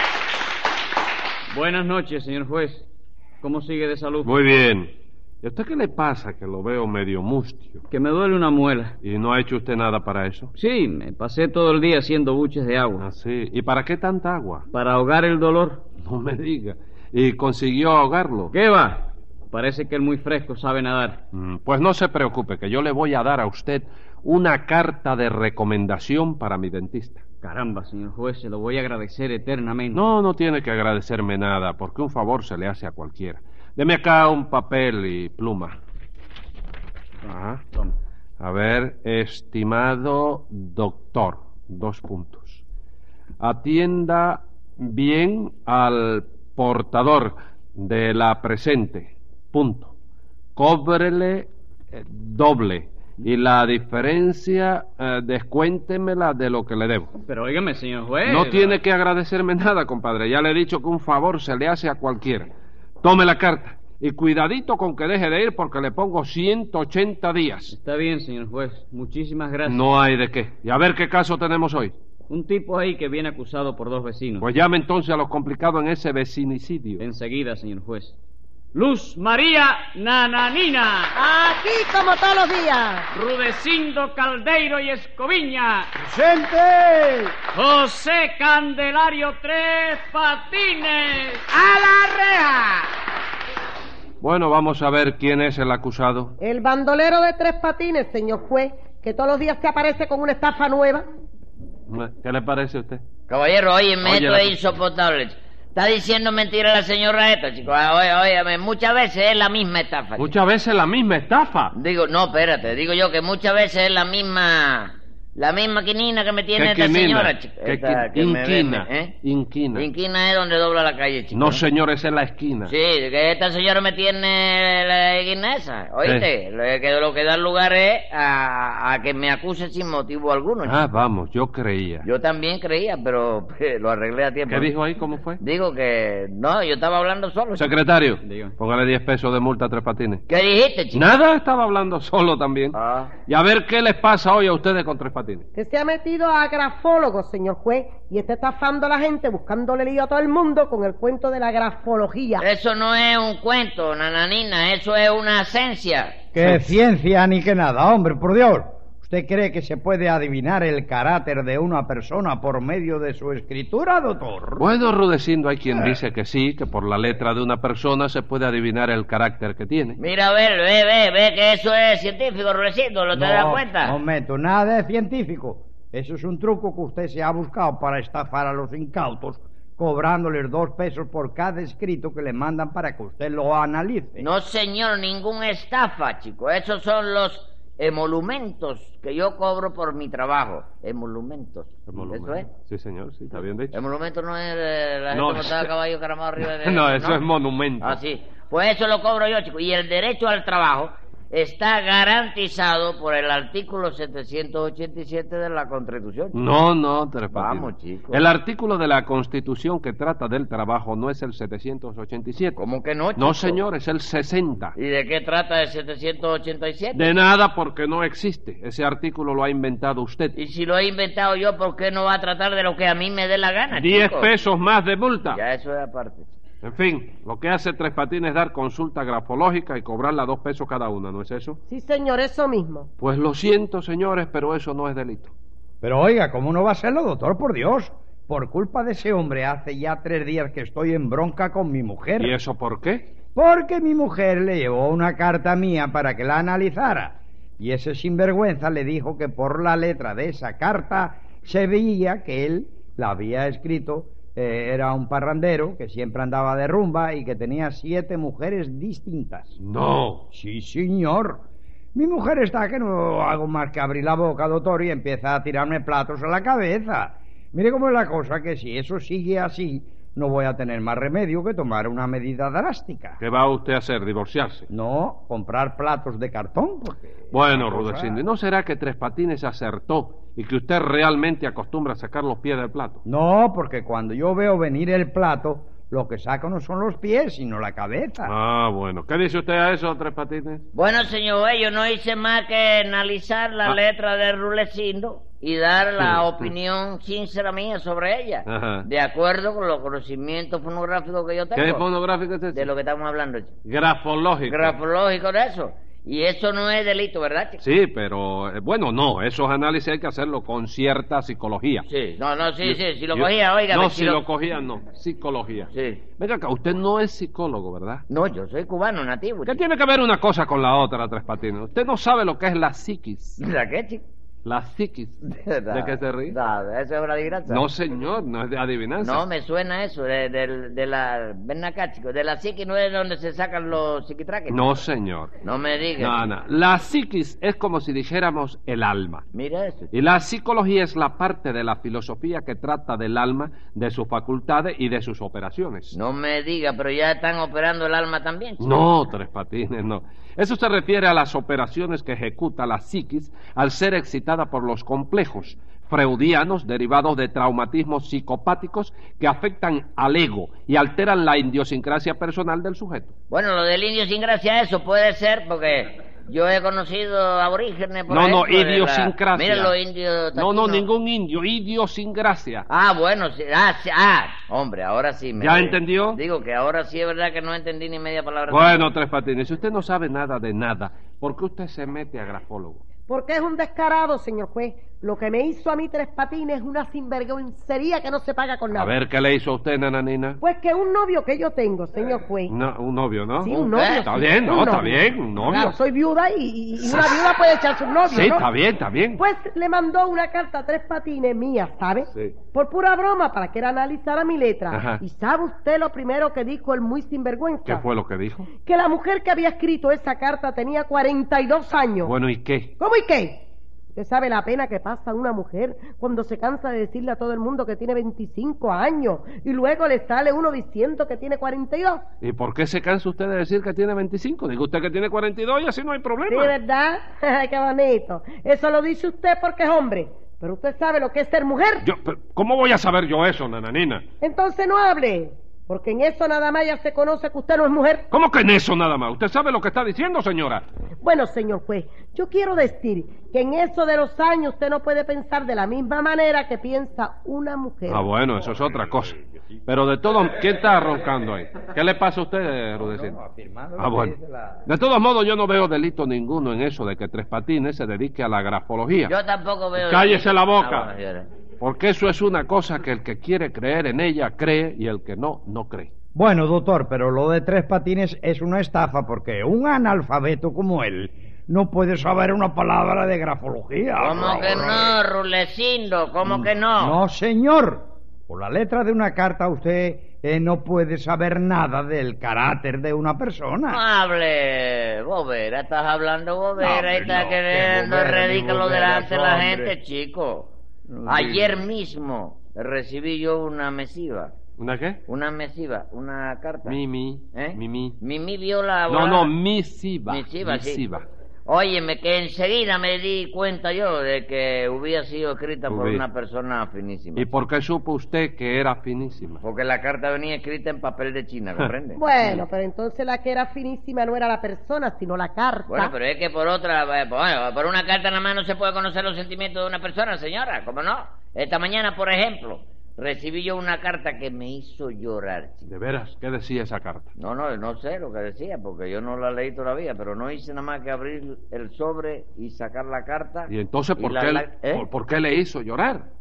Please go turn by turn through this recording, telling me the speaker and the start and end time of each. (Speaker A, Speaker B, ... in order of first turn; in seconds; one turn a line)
Speaker A: 1.5-2.9
Speaker A: 3.4-4.5
Speaker B: 4.2-7.8
Speaker A: 7.9-9.0
Speaker B: 9.0-10.5
Speaker A: 10.6-13.1
Speaker B: 13.0-14.7
Speaker A: 14.7-15.9
Speaker B: 16.0-18.5
Speaker A: 18.5-21.2
Speaker B: 21.3-27.2
Speaker A: 27.4-30.2
Speaker B: 29.9-35.8
Speaker B: 37.3-37.6
Speaker B: 38.4-42.6
Speaker B: 43.4-49.9
Speaker B: 50.6-57.1
Speaker A: 57.2-58.8
Speaker B: 58.3-62.5
Speaker B: 63.0-67.8
Speaker A: 67.7-69.9
Speaker B: 69.7-72.0
Speaker A: 72.3-74.5
Speaker B: 74.4-77.0
Speaker A: 77.0-78.2
Speaker A: 78.7-81.1
Speaker C: 81.1-83.1
Speaker A: 83.1-85.9
Speaker D: 86.0-87.3
Speaker A: 87.5-91.4
Speaker B: 94.2-96.4
Speaker C: 96.4-101.0
Speaker B: 101.9-103.0
Speaker E: 103.3-110.3
Speaker B: 104.0-104.6
Speaker B: 110.2-111.7
Speaker E: 111.7-119.2
Speaker B: 116.6-119.9
Speaker E: 119.7-121.6
Speaker B: 121.3-122.7
Speaker E: 122.7-130.8
Speaker B: 130.6-132.1
Speaker E: 132.0-134.7
Speaker B: 134.5-135.4
Speaker E: 135.4-137.7
Speaker B: 137.6-140.2
Speaker A: 138.2-138.6
Speaker E: 140.3-141.1
Speaker B: 140.9-145.5
Speaker E: 142.7-143.1
Speaker C: 145.6-152.4
Speaker E: 152.4-156.2
Speaker D: 156.3-164.7
Speaker B: 156.4-156.8
Speaker B: 164.6-170.0
Speaker E: 170.0-173.9
Speaker D: 173.1-184.3
Speaker E: 184.2-192.5
Speaker B: 191.9-193.8
Speaker E: 193.7-197.2
Speaker B: 195.1-195.7
Speaker B: 196.4-198.0
Speaker E: 197.8-206.4
Speaker B: 206.3-212.6
Speaker E: 207.3-208.3
Speaker E: 212.6-213.6
Speaker B: 213.2-214.8
Speaker E: 214.8-217.2
Speaker B: 216.9-220.3
Speaker E: 220.4-224.3
Speaker B: 223.7-225.4
Speaker E: 225.3-226.3
Speaker B: 226.6-231.6
Speaker C: 231.7-232.9
Speaker B: 233.0-235.3
Speaker D: 235.8-242.3
Speaker B: 242.2-243.1
Speaker D: 243.3-259.6
Speaker B: 259.6-260.3
Speaker D: 260.3-261.4
Speaker D: 261.9-273.2
Speaker B: 273.2-274.7
Speaker D: 274.7-278.2
Speaker B: 277.3-283.0
Speaker D: 283.1-288.3
Speaker B: 288.2-290.6
Speaker E: 290.7-301.9
Speaker B: 296.0-296.5
Speaker B: 298.5-298.9
Speaker B: 301.6-302.7
Speaker E: 302.5-303.5
Speaker B: 303.6-304.8
Speaker E: 304.5-307.6
Speaker B: 307.6-311.9
Speaker E: 311.9-314.2
Speaker B: 312.6-318.1
Speaker E: 315.7-316.0
Speaker E: 318.1-319.6
Speaker B: 319.4-323.4
Speaker E: 323.4-324.0
Speaker B: 324.4-326.4
Speaker E: 325.3-327.6
Speaker B: 327.5-329.2
Speaker E: 329.0-334.8
Speaker B: 334.5-335.3
Speaker E: 335.4-336.2
Speaker B: 336.0-339.2
Speaker E: 339.3-339.9
Speaker B: 339.9-345.9
Speaker E: 345.9-348.8
Speaker B: 348.6-363.1
Speaker E: 363.3-370.9
Speaker B: 368.1-369.8
Speaker B: 370.4-372.7
Speaker E: 372.7-378.9
Speaker B: 375.4-376.2
Speaker B: 378.5-382.8
Speaker C: 383.1-388.9
Speaker B: 388.7-390.4
Speaker C: 390.4-392.5
Speaker B: 392.5-393.5
Speaker C: 393.4-398.5
Speaker E: 393.5-394.3
Speaker B: 394.1-395.8
Speaker B: 396.8-397.2
Speaker B: 398.1-399.2
Speaker C: 399.2-407.9
Speaker B: 404.7-405.0
Speaker B: 407.6-408.5
Speaker C: 408.5-412.1
Speaker B: 412.0-412.7
Speaker C: 412.8-413.4
Speaker C: 413.9-422.0
Speaker B: 422.2-426.6
Speaker C: 426.3-431.9
Speaker B: 431.8-434.0
Speaker C: 434.2-438.1
Speaker B: 438.1-440.6
Speaker C: 441.0-448.1
Speaker B: 447.9-449.1
Speaker D: 448.6-449.2
Speaker B: 449.7-453.2
Speaker D: 452.8-454.6
Speaker B: 453.8-459.1
Speaker E: 459.1-461.3
Speaker B: 459.8-460.9
Speaker B: 461.6-465.9
Speaker D: 466.1-475.0
Speaker E: 473.9-477.0
Speaker D: 476.2-483.8
Speaker E: 483.7-490.5
Speaker D: 486.6-489.8
Speaker D: 490.9-491.5
Speaker E: 491.1-494.3
Speaker B: 494.6-495.0
Speaker E: 495.1-496.8
Speaker B: 496.6-498.0
Speaker E: 497.3-499.3
Speaker B: 498.9-501.1
Speaker E: 500.1-500.8
Speaker E: 501.5-507.4
Speaker B: 505.7-506.0
Speaker B: 507.1-509.4
Speaker E: 509.4-512.4
Speaker C: 512.0-515.9
Speaker E: 515.7-525.7
Speaker B: 525.7-527.1
Speaker E: 527.2-534.9
Speaker B: 533.5-536.1